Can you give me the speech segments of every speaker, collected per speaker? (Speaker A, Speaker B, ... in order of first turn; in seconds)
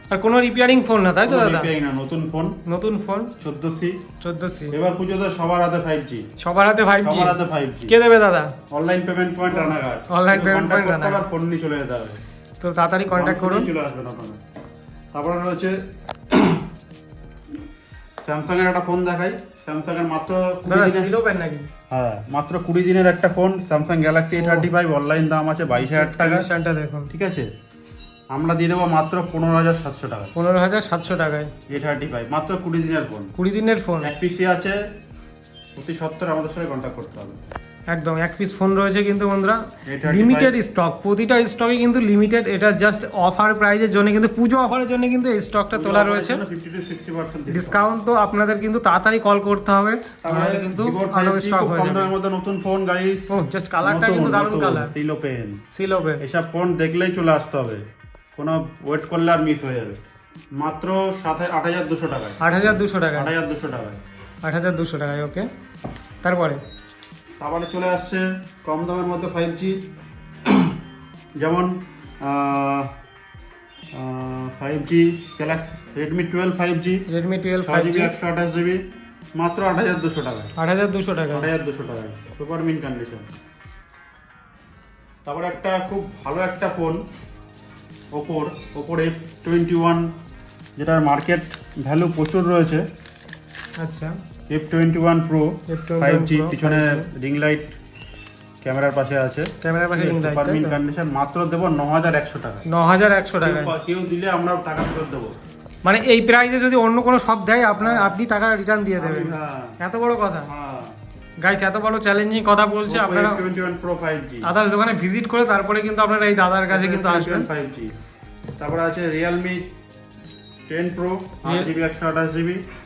Speaker A: 0.1-1.7, 2.7-3.3, 4.2-4.8, 6.4-8.5, 9.5-11.2, 12.6-13.7, 20.7-21.7, 24.4-24.7, 25.8-27.1, 30.4-31.5, 33.4-34.1, 37.9-46.4, 47.5-52.1, 53.3-54.9, 55.7-56.2, 62.4-63.3, 64.4-65.5, 66.2-66.6, 77.1-78.1, 80.6-81.5, 93.8-94.1, 95.7-97.1, 99.6-100.7, 102.7-103.7, 105.8-110.5, 111.4-113.4, 114.4-117.5
Speaker B: 1.2-2.6, 3.4-4.0, 4.7-6.2, 7.0-8.0, 8.7-12.2, 13.1-14.4, 15.1-15.8, 16.3-16.6, 18.2-21.1, 21.9-26.5, 27.1-27.5, 28.3-30.3, 31.7-33.3, 34.0-34.8, 35.8-37.4, 39.9-40.5, 45.7-47.9, 50.2-53.3, 53.8-55.6, 56.2-57.8, 58.4-60.0, 60.6-64.0, 67.4-69.8, 70.5-70.8, 71.4-72.9, 73.9-77.0, 77.6-78.8, 79.4-80.5, 81.3-83.3, 85.2-87.0, 88.1-90.1, 90.8-92.8, 94.5-97.8, 98.6-102.6, 103.4-105.3, 107.8-108.2, 109.0-109.8, 110.5-111.0, 112.9-114.5, 116.7-117.9, 118.6-119.7, 120.7-122.6